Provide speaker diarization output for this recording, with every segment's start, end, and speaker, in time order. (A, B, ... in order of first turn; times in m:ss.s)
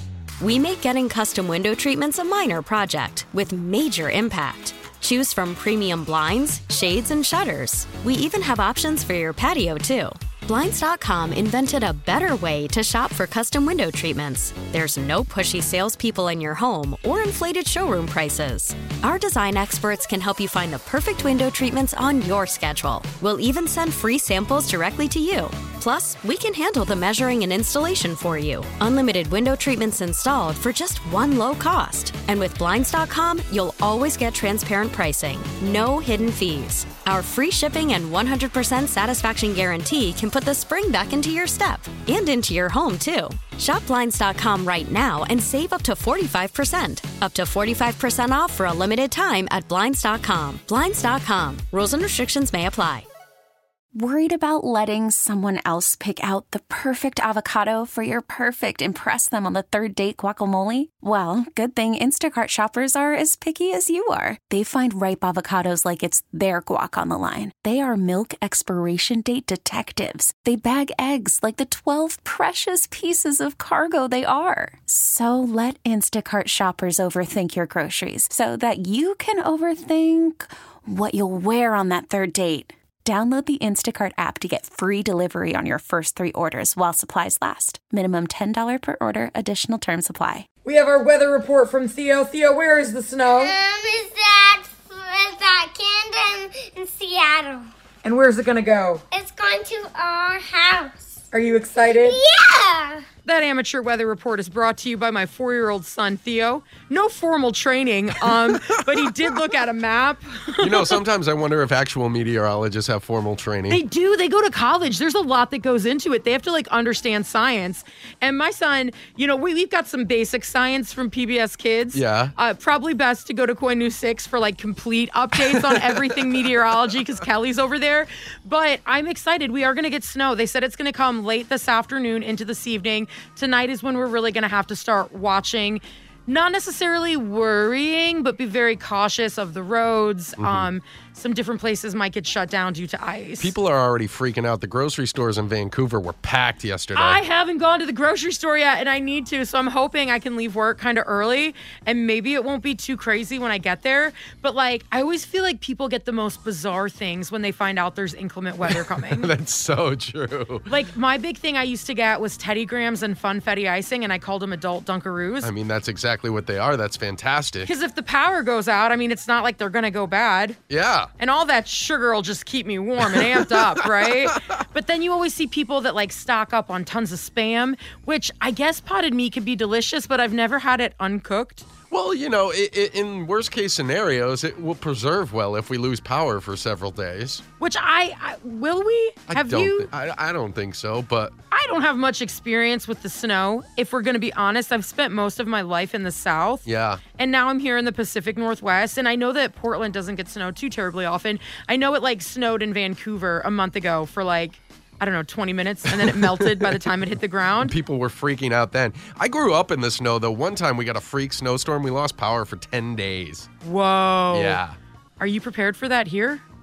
0:00.4-0:53.0 A
0:53.9-1:30.5 B
1:30.6-1:33.6 C
1:33.4-1:37.6 D
1:38.0-1:39.0 C
1:39.1-1:41.0 D
1:41.3-1:42.3 C
1:41.9-1:43.0 D
1:43.2-1:51.0 C
1:49.0-1:49.3 E
1:50.6-1:53.8 E
1:53.7-2:23.5 C
2:01.9-2:02.3 E
2:05.4-2:06.4 E
2:20.4-2:20.7 E
2:23.4-2:27.2 E
2:26.9-2:39.3 C
2:38.6-2:40.7 E
2:40.7-2:45.5 C
2:45.4-2:47.7 E
2:47.6-2:50.6 C
2:50.7-2:51.1 E
2:51.2-3:01.7 C
2:53.0-2:54.2 E
3:01.9-3:07.4 E
3:07.6-3:09.9 C
3:09.3-3:11.3 E
3:11.5-3:27.7 C
3:16.6-3:17.0 E
3:25.8-3:26.8 E
3:27.6-3:33.5 E
3:33.6-3:34.6 C
3:34.3-3:34.8 E
3:35.2-3:36.4 C